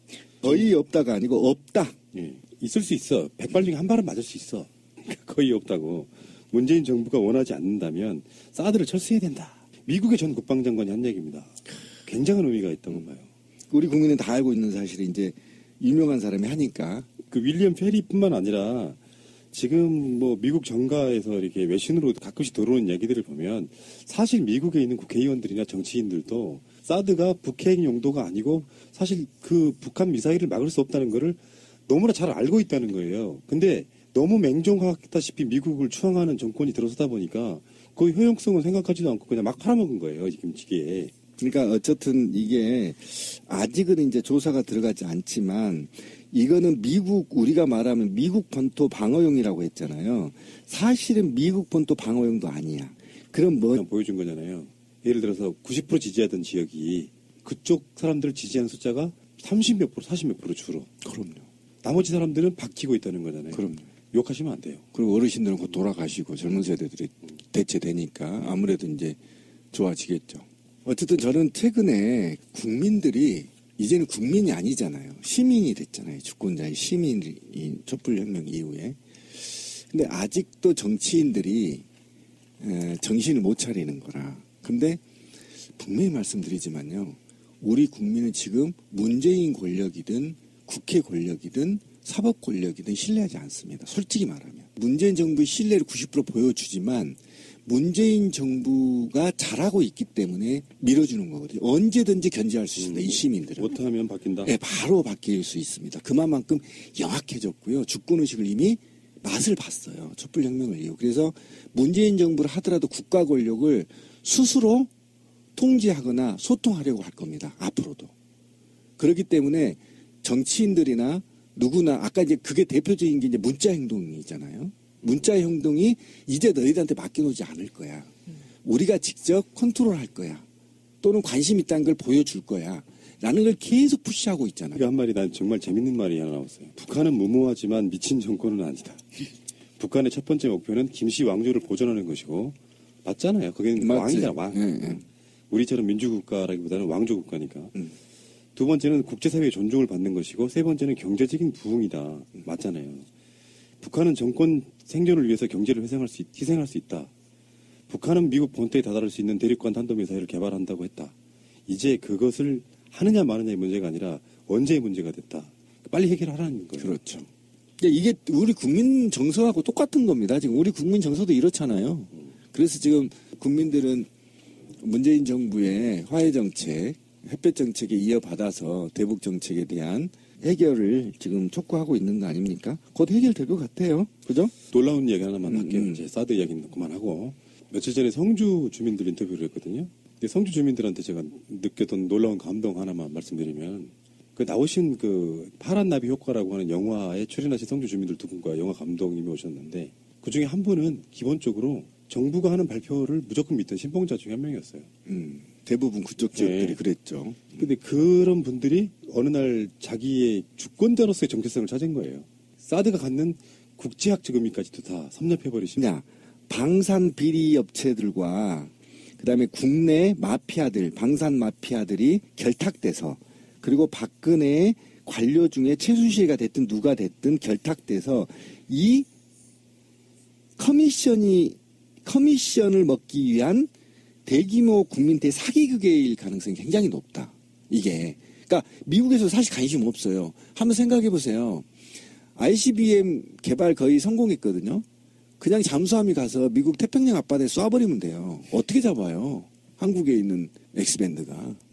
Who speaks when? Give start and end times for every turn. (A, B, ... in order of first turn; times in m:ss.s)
0:00.4-0:02.0 A
0:02.1-0:13.2 B
0:13.7-0:17.1 A
0:17.3-0:19.0 B
0:19.5-0:41.1 B
0:41.4-0:53.8 A
0:53.7-1:00.9 B
1:01.0-1:01.4 A
1:01.8-1:04.8 B
1:03.5-1:03.8 A
1:04.9-1:09.2 A
1:09.7-1:21.8 A
1:22.6-1:25.0 A
1:25.8-1:43.7 A
1:42.8-1:44.5 B
1:44.4-1:54.9 A
1:55.6-1:58.1 A
1:59.0-2:08.1 A
2:08.6-2:10.4 A
2:11.0-2:14.8 A
2:14.7-2:19.3 B
2:19.8-2:27.7 B
2:23.8-2:25.0 A
2:28.5-2:33.0 B
2:33.8-2:37.1 B
2:37.9-2:41.1 B
2:41.7-2:47.2 B
2:46.8-2:47.2 A
2:47.8-2:54.1 A
2:54.8-3:04.5 A
3:04.7-3:24.9 B
3:05.4-3:06.0 A
3:25.0-3:27.6 A
3:26.3-3:26.8 B
3:27.6-3:35.8 B
3:35.8-3:49.1 A
3:50.6-3:53.7 A
3:54.2-4:01.7 A
4:02.4-4:04.8 A
4:05.4-4:11.6 A